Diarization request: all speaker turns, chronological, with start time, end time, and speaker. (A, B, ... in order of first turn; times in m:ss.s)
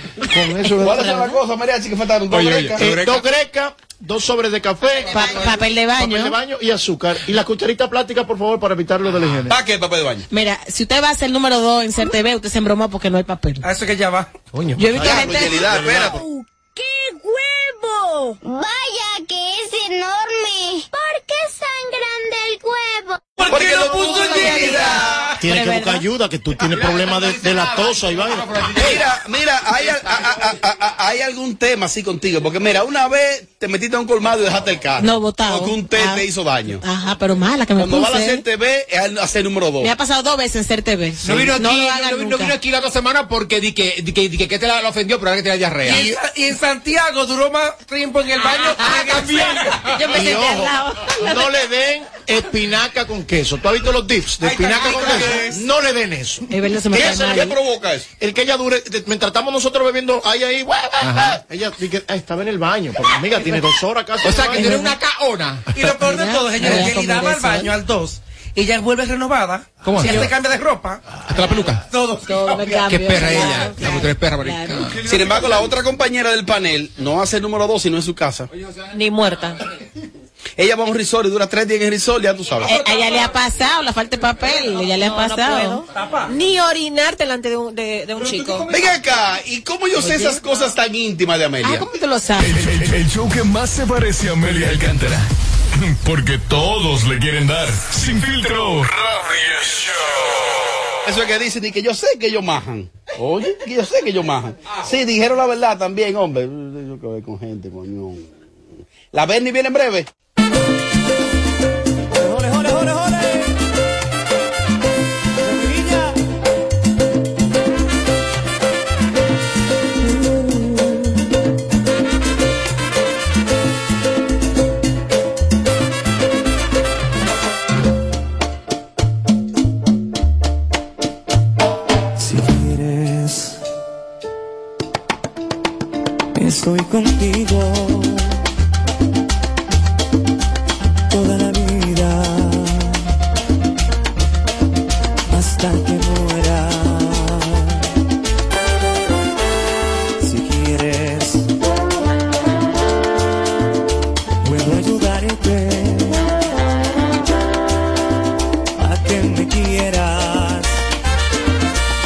0:00.3-0:01.2 A
0:00.7-0:01.3 B
0:00.8-0:02.8 C
0:02.3-0:03.2 D
0:02.8-0:09.6 A
0:05.1-0:06.4 B
0:09.5-0:10.3 C
0:10.3-0:13.6 B
0:13.6-0:14.3 E
0:14.5-0:16.2 A
0:14.8-0:15.6 B
0:15.0-0:16.2 C
0:17.3-0:17.7 F
0:18.4-0:23.3 F
0:23.4-0:25.2 E
0:23.5-0:26.1 B
0:23.5-0:25.3 C
0:25.4-0:28.7 A
0:26.6-0:29.1 D
0:28.8-0:36.8 C
0:29.8-0:30.1 D
0:35.0-0:36.2 B
0:36.8-0:38.4 B
0:37.8-0:39.9 C
0:39.8-0:42.6 B
0:41.2-0:46.1 D
0:45.8-0:49.8 E
0:48.5-0:51.4 B
0:48.6-0:50.0 D
0:50.1-0:57.5 A
0:54.4-0:55.6 E
0:56.5-0:57.6 B
0:56.9-0:58.1 C
0:58.2-1:04.9 A
1:01.0-1:01.4 D
1:04.2-1:05.7 D
1:05.7-1:11.0 E
1:06.0-1:07.7 B
1:06.6-1:06.9 D
1:09.8-1:10.3 D
1:11.3-1:11.8 D
1:11.9-1:12.9 E
1:12.2-1:14.9 B
1:12.9-1:15.1 D
1:15.0-1:18.5 C
1:18.9-1:19.6 G
1:20.6-1:22.8 C
1:22.6-1:25.8 B
1:24.5-1:28.7 G
1:25.9-1:26.3 E
1:28.4-1:28.7 D
1:28.7-1:31.9 C
1:30.0-1:30.4 B
1:31.6-1:32.6 B
1:32.4-1:40.7 H
1:41.0-1:48.3 C
1:49.1-1:50.1 C
1:52.2-1:53.5 I
1:55.4-1:56.1 I
2:12.2-2:13.6 I
2:16.4-2:18.4 I
2:21.1-2:23.1 I
2:25.3-2:27.9 I
2:30.2-2:31.5 I
2:34.4-2:36.3 I
2:38.8-2:40.9 I